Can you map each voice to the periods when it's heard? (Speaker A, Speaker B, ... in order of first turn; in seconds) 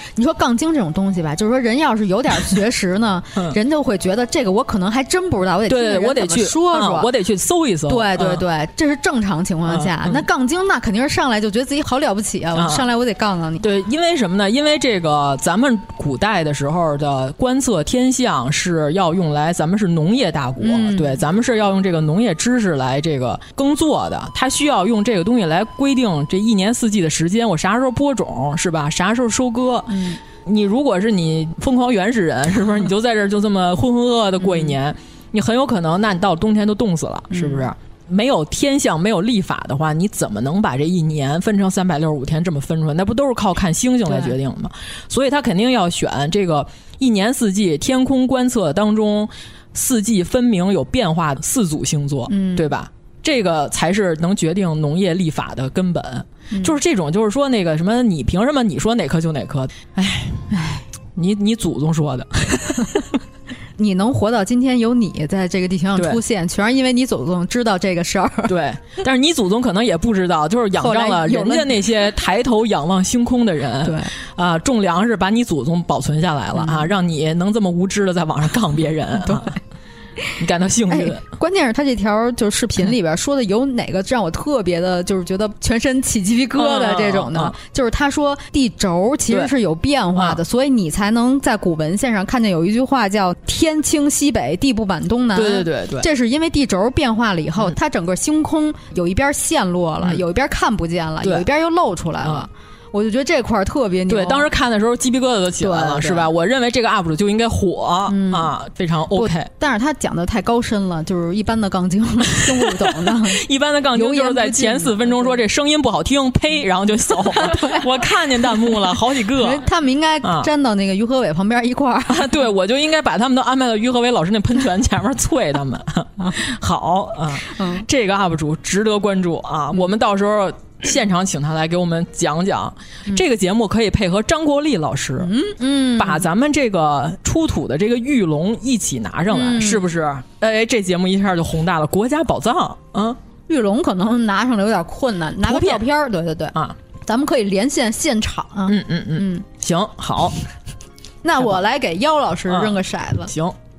Speaker A: 0.1-7.1, 7.9-13.6, 20.6-21.2, 29.9-30.2, 34.4-34.7, 37.3-37.6, 44.1-44.3, 52.3-52.7, 56.5-56.8, 60.5-60.8, 63.8-68.5, 70.8-71.8, 73.8-74.1, 76.5-76.9, 79.2-79.5, 80.9-104.5, 105.6-106.3, 108.1-108.5, 109.1-115.4, 117.3-117.8, 119.3-122.4, 127.5-127.8, 135.2-136.2, 139.3-139.9, 143.5-149.4, 151.2-153.3
Speaker B: 5.7-8.4, 9.7-10.2, 12.5-12.8, 13.6-60.5, 61.1-63.1, 68.5-79.5, 80.4-81.2, 86.5-87.5, 95.3-96.1, 101.2-101.5, 102.2-102.5, 104.1-109.5, 112.5-119.6, 120.2-120.5, 122.1-135.3, 136.0-143.2, 145.4-145.9, 148.7-150.4, 152.5-153.6